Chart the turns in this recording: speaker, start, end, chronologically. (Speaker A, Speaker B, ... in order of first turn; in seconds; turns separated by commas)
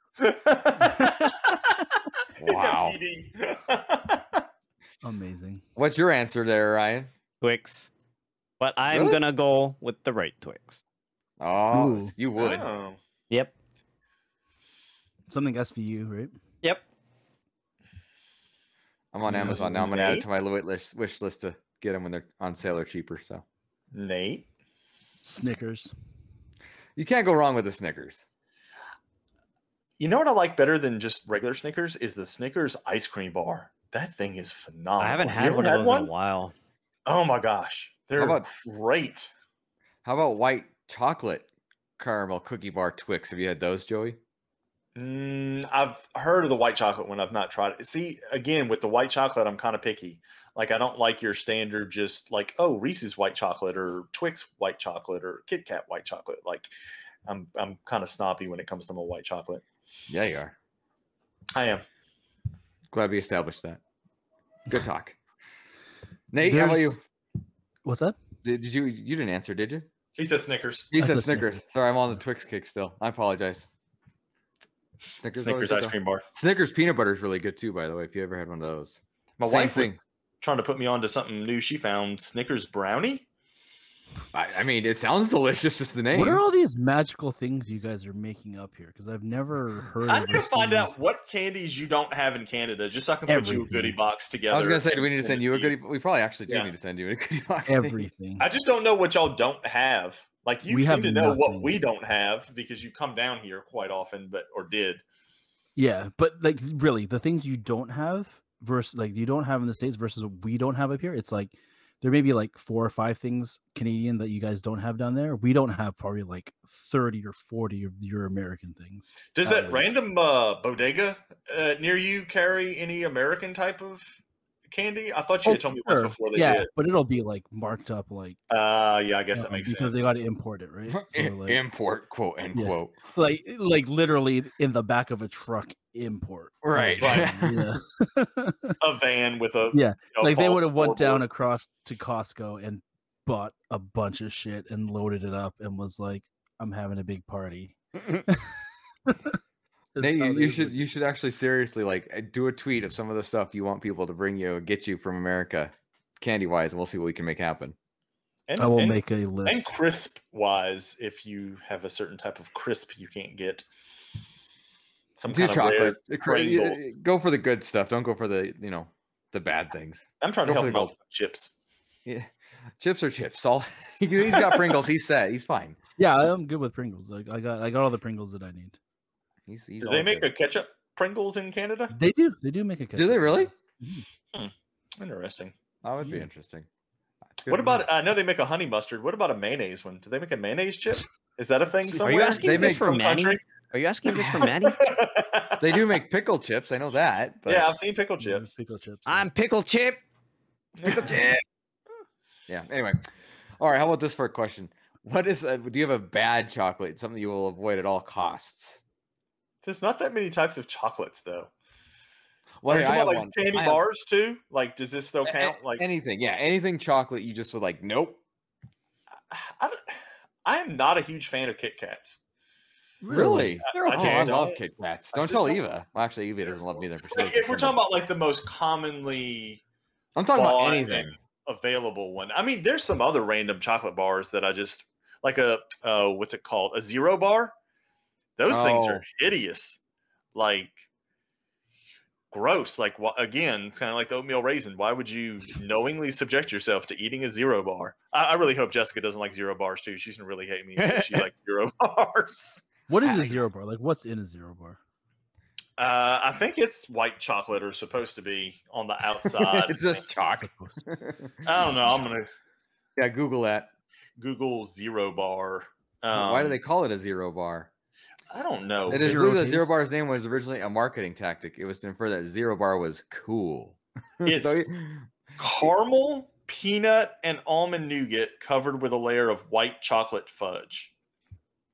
Speaker A: 0.2-1.7, Speaker B: 2.4-3.0, Speaker A: 2.4-4.4, Speaker C: 5.0-5.6, Speaker B: 5.8-7.1, Speaker D: 7.4-7.9, Speaker D: 8.6-10.8, Speaker B: 8.9-9.2, Speaker B: 11.4-12.7, Speaker C: 11.7-12.1, Speaker A: 12.4-13.0, Speaker C: 15.3-16.3, Speaker B: 19.1-23.4, Speaker C: 19.3-19.7, Speaker A: 19.4-20.3, Speaker A: 23.9-24.5, Speaker C: 25.2-25.9, Speaker B: 27.0-28.2, Speaker A: 30.0-36.1, Speaker D: 35.0-36.5, Speaker A: 37.1-39.3, Speaker B: 38.2-38.5, Speaker B: 40.0-44.2, Speaker A: 45.0-56.7, Speaker A: 57.3-59.6, Speaker B: 60.1-60.5, Speaker A: 61.5-61.8, Speaker B: 62.9-63.8, Speaker B: 64.7-65.2, Speaker B: 66.3-67.0, Speaker C: 66.4-67.0, Speaker C: 67.8-68.2, Speaker B: 68.4-69.9, Speaker A: 70.2-70.9, Speaker B: 70.9-73.7, Speaker C: 71.0-71.6, Speaker B: 75.2-80.0, Speaker A: 75.3-76.2, Speaker A: 79.4-83.3, Speaker B: 84.3-86.4, Speaker C: 86.1-91.0, Speaker A: 90.1-95.8, Speaker C: 93.3-94.0, Speaker B: 94.5-98.1, Speaker C: 97.7-98.5, Speaker A: 98.4-105.0, Speaker C: 100.7-101.7, Speaker C: 105.8-120.0, Speaker A: 119.3-124.2, Speaker A: 124.7-126.7, Speaker C: 125.5-128.4, Speaker A: 128.5-130.1, Speaker C: 129.3-131.6, Speaker B: 130.9-133.0, Speaker C: 132.6-138.8, Speaker B: 136.6-137.7, Speaker A: 137.0-137.3, Speaker A: 138.8-141.2, Speaker C: 139.7-148.5, Speaker C: 149.1-149.4, Speaker C: 149.9-150.8, Speaker B: 150.0-157.8, Speaker A: 158.5-163.7, Speaker C: 158.6-159.8, Speaker A: 165.2-166.8, Speaker B: 165.3-170.9, Speaker A: 170.2-171.5, Speaker B: 172.1-175.8, Speaker A: 174.3-174.8, Speaker C: 176.0-178.8, Speaker B: 179.5-180.3, Speaker A: 179.8-181.9, Speaker C: 181.9-184.1, Speaker B: 183.0-183.5, Speaker A: 184.3-185.5, Speaker B: 185.8-186.7, Speaker B: 187.3-187.9, Speaker A: 187.5-193.4, Speaker C: 191.8-192.4, Speaker D: 192.0-194.9, Speaker B: 192.4-192.9, Speaker B: 194.1-194.4, Speaker A: 194.6-195.9, Speaker B: 195.6-197.7, Speaker A: 197.5-198.5, Speaker C: 198.2-199.3, Speaker D: 199.1-200.0, Speaker A: 200.8-201.2, Speaker B: 200.8-201.4, Speaker B: 202.5-203.0, Speaker B: 203.6-208.8, Speaker A: 209.6-211.5, Speaker B: 212.6-213.8, Speaker A: 212.7-215.8, Speaker B: 215.2-218.2, Speaker A: 219.3-219.9, Speaker A: 220.4-222.2, Speaker C: 223.0-223.6, Speaker B: 223.1-227.8, Speaker A: 223.7-224.6, Speaker D: 223.7-224.5, Speaker A: 225.1-225.7, Speaker A: 227.1-229.6, Speaker B: 230.2-231.2, Speaker A: 230.3-237.5, Speaker A: 238.4-239.8, Speaker B: 238.5-239.0, Speaker A: 240.3-240.8, Speaker A: 242.3-253.4, Speaker D: 250.8-251.3, Speaker C: 252.9-254.8, Speaker A: 255.8-260.1, Speaker B: 259.2-261.4, Speaker C: 260.4-260.8, Speaker A: 261.4-262.3, Speaker B: 263.0-263.7, Speaker A: 264.2-266.6, Speaker B: 266.1-267.7, Speaker A: 268.3-269.3, Speaker B: 268.9-275.1, Speaker C: 268.9-269.7, Speaker A: 274.2-274.6, Speaker A: 275.4-280.9